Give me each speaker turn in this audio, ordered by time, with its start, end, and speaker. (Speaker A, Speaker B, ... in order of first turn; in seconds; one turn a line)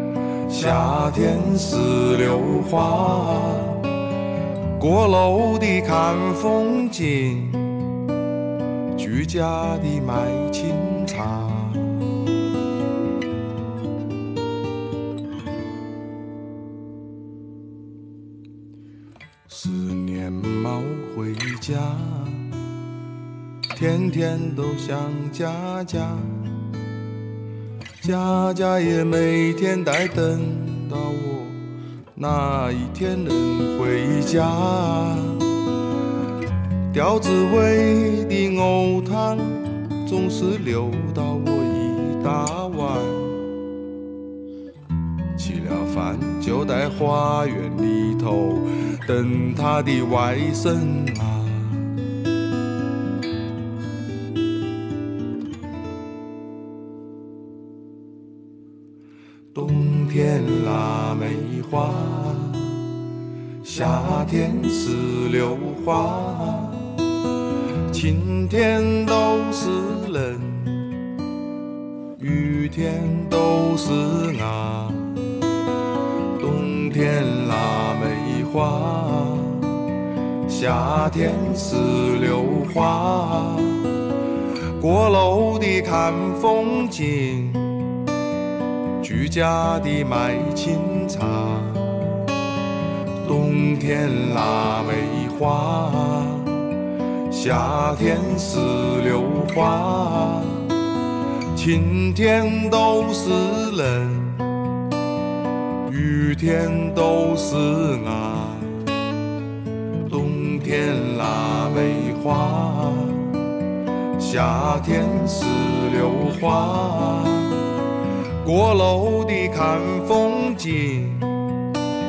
Speaker A: 0.5-4.0
Speaker A: 4.8-8.0
Speaker A: 8.9-12.1
Speaker A: 19.5-22.6
Speaker A: 23.7-26.6
Speaker A: 28.0-35.7
Speaker A: 36.9-43.5
Speaker A: 45.4-51.9
Speaker A: 59.5-62.9
Speaker A: 63.6-67.1
Speaker A: 67.9-71.0
Speaker A: 72.2-75.3
Speaker A: 76.4-79.9
Speaker A: 80.5-88.0
Speaker A: 89.0-92.3
Speaker A: 93.2-101.0
Speaker A: 101.5-104.6
Speaker A: 105.8-108.9
Speaker A: 110.0-113.5
Speaker A: 114.2-121.5